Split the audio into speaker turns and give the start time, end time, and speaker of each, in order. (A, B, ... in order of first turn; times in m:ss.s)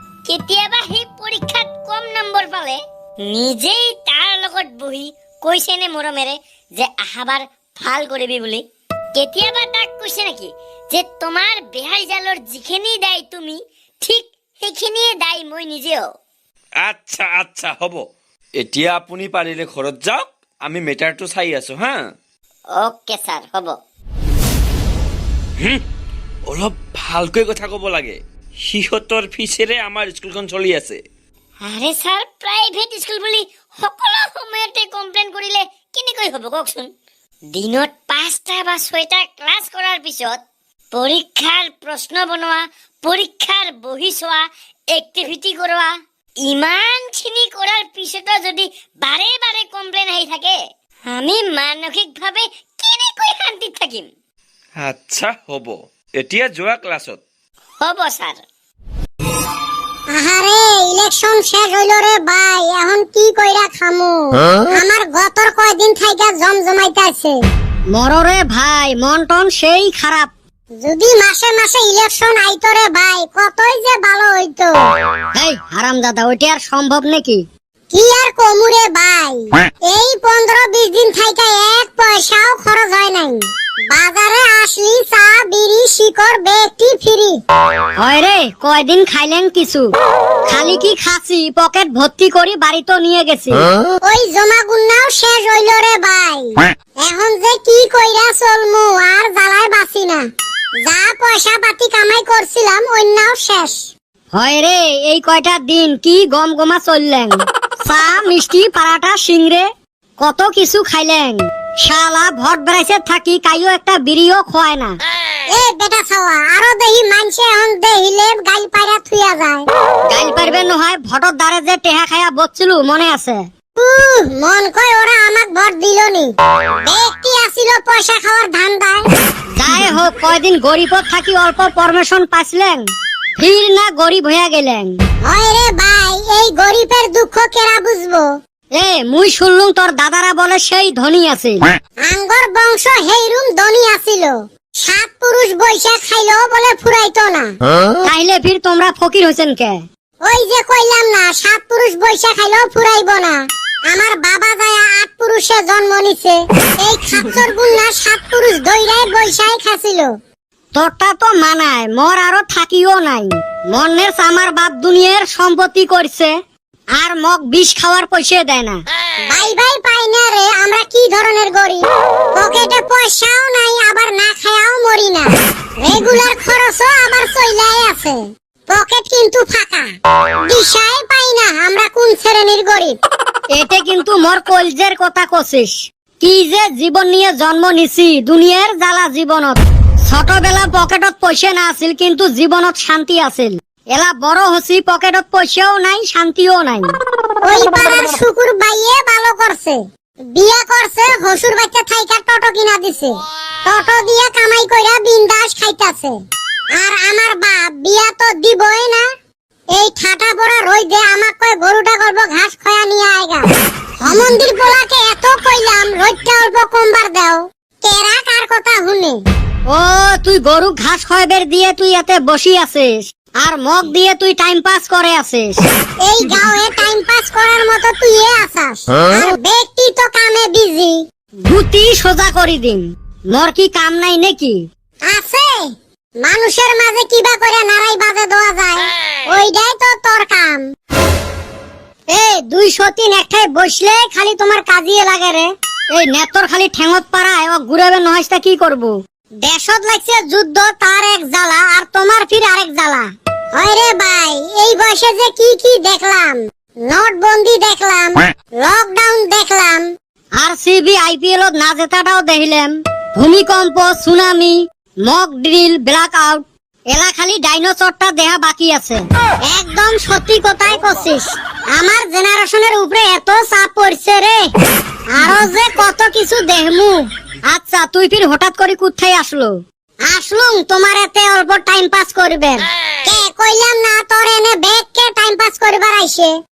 0:00.3-0:08.6 A
0:09.2-0:16.1 A
0:16.8-0:22.1 B
0:22.8-0:23.8 A
0:25.6-0:25.8 B
0:26.5-0:31.0 B
0:31.6-0:36.9 A
0:37.5-0:40.4 A
0:40.9-0:45.9 A
0:46.4-0:54.1 A
0:54.8-0:57.2 B
0:57.8-0:58.4 A
1:00.1-1:07.4 C
1:07.9-1:10.3 D
1:10.8-1:14.8 C
1:15.3-1:17.4 D
1:17.9-1:27.4 C
1:28.0-1:29.9 D
1:30.5-1:33.6 D
1:34.0-1:40.2 C
1:40.8-1:43.8 C
1:44.3-1:49.7 D
1:50.2-1:55.0 D
1:55.5-1:59.6 C
2:00.1-2:03.4 D
2:03.8-2:09.0 C
2:09.5-2:12.8 D
2:13.4-2:15.0 D
2:15.2-2:18.3 C
2:18.7-2:21.6 D
2:22.0-2:27.5 C
2:28.0-2:29.8 D
2:30.2-2:40.1 C
2:40.7-2:46.3 D
2:47.0-2:48.8 D
2:49.3-2:59.9 C
3:00.4-3:03.0 C
3:03.5-3:17.0 D
3:17.4-3:19.8 C
3:20.3-3:26.2 C
3:26.7-3:29.0 C
3:29.7-3:33.5 C
3:34.0-3:39.2 C
3:39.7-3:45.6 D
3:46.0-3:51.0 C
3:51.4-3:54.6 D
3:55.1-3:55.7 C
3:56.2-4:00.6 C
4:02.1-4:04.4 D
4:04.3-4:05.2 C
4:05.1-4:08.9 D
4:09.4-4:19.8 C
4:20.4-4:29.0 D
4:29.4-4:30.4 C
4:30.4-4:31.3 D
4:31.7-4:34.3 C
4:35.1-4:35.9 C
4:35.7-4:36.9 D
4:37.5-4:42.6 D
4:43.0-4:46.4 C